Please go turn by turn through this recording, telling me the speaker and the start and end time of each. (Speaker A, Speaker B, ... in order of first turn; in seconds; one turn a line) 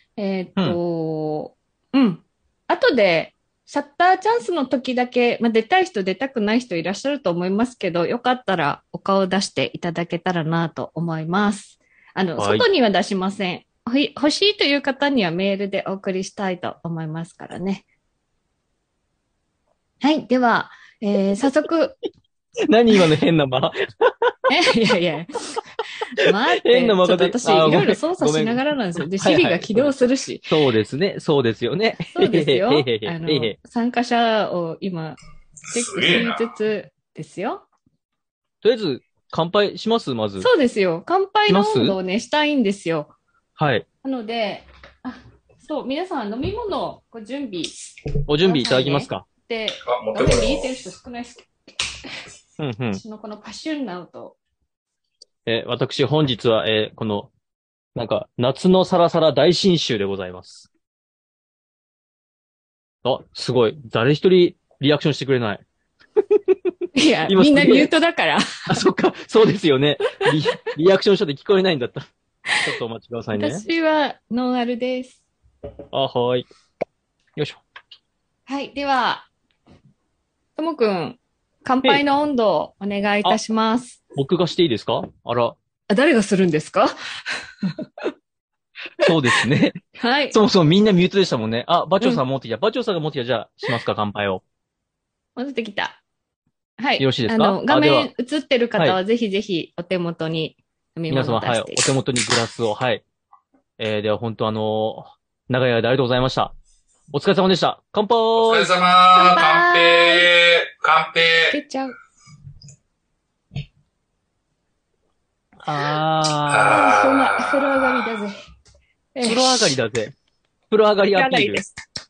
Speaker A: 0.2-17.9
Speaker B: 12.4-12.7
Speaker A: 20.0-22.0
Speaker B: 22.7-24.4
Speaker A: 24.5-25.4
Speaker A: 26.2-30.6
Speaker B: 26.7-33.6
Speaker A: 32.0-35.2
Speaker C: 35.7-36.4
Speaker A: 35.7-37.7
Speaker B: 38.6-40.5
Speaker A: 40.4-43.1
Speaker B: 41.5-42.0
Speaker B: 43.6-43.9
Speaker A: 44.0-47.8
Speaker B: 48.3-49.3
Speaker A: 48.4-51.5
Speaker C: 49.9-50.8
Speaker B: 52.6-53.0
Speaker A: 52.9-54.4
Speaker B: 55.5-57.3
Speaker B: 58.0-60.7
Speaker B: 63.0-65.6
Speaker A: 67.0-68.7
Speaker B: 67.3-67.9
Speaker B: 68.7-72.1
Speaker B: 72.6-73.7
Speaker A: 73.3-75.2
Speaker B: 75.9-76.5
Speaker B: 77.4-77.6
Speaker A: 78.5-79.3
Speaker A: 80.6-84.0
Speaker B: 84.2-85.6
Speaker A: 85.9-86.9
Speaker B: 89.0-89.8
Speaker A: 90.0-90.4
Speaker B: 90.3-94.4
Speaker A: 95.4-96.0
Speaker A: 96.8-102.0
Speaker B: 97.0-98.1
Speaker B: 101.1-103.0
Speaker B: 103.8-106.6
Speaker B: 107.1-108.7
Speaker C: 108.4-111.6
Speaker A: 109.2-110.3
Speaker A: 111.5-112.0
Speaker B: 115.6-116.8
Speaker C: 116.5-118.0
Speaker A: 116.7-118.3
Speaker A: 119.2-119.8
Speaker B: 119.2-120.1
Speaker B: 120.7-121.6
Speaker A: 121.1-121.7